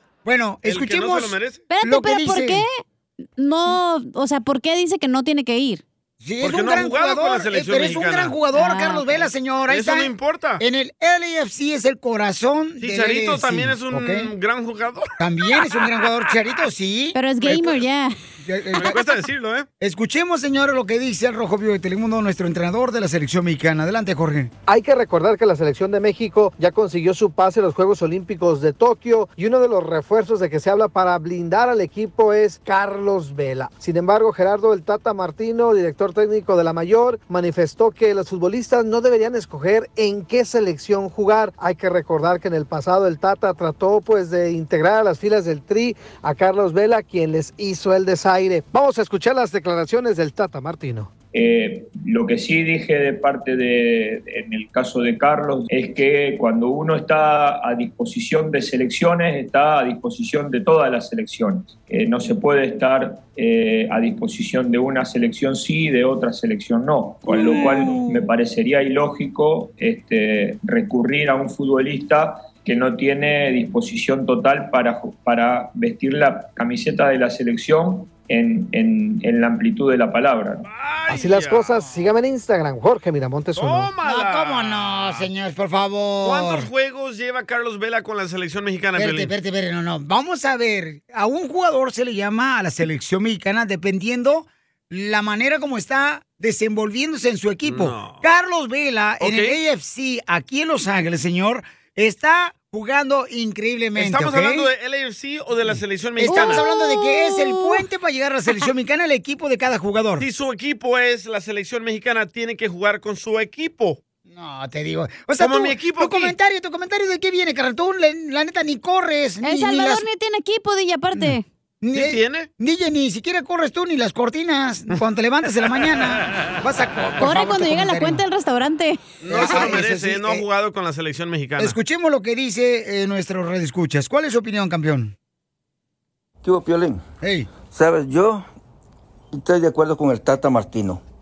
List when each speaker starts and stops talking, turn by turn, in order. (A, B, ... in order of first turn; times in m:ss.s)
0:00.2-0:02.6 A
0:00.6-0:01.6 B
0:01.7-0:02.8 C
0:03.4-0:05.8 C
0:06.2-0:14.3 A
0:06.4-0:08.4 B
0:08.5-0:09.3 C
0:09.7-0:10.6 B
0:12.8-0:15.1 B
0:15.2-0:17.8 A
0:17.1-0:18.2 C
0:18.4-0:19.0 A
0:18.8-0:19.7 B
0:19.8-0:24.5 A
0:24.7-0:51.1 D
0:51.3-1:20.7 E
1:07.3-1:08.2 A
1:20.6-1:21.8 B
1:21.1-1:23.9 D
1:23.6-1:25.3 B
1:24.0-1:26.7 A
1:26.2-1:29.3 B
1:29.0-1:44.7 A
1:37.6-1:38.2 B
1:39.2-1:39.6 B
1:44.0-1:46.6 B
1:46.2-1:50.3 A
1:46.2-1:47.8 C
1:50.2-1:54.0 B
1:54.3-2:00.0 A
1:55.4-1:56.4 B
1:59.4-2:01.4 C
2:01.2-2:08.2 A
2:01.9-2:02.5 B
2:07.2-2:09.0 C
2:09.2-2:11.8 B
2:09.3-2:10.4 A
2:11.6-2:15.1 A
2:16.4-2:17.0 F
2:17.2-2:17.5 A
2:17.6-2:18.4 F
2:19.3-2:21.0 F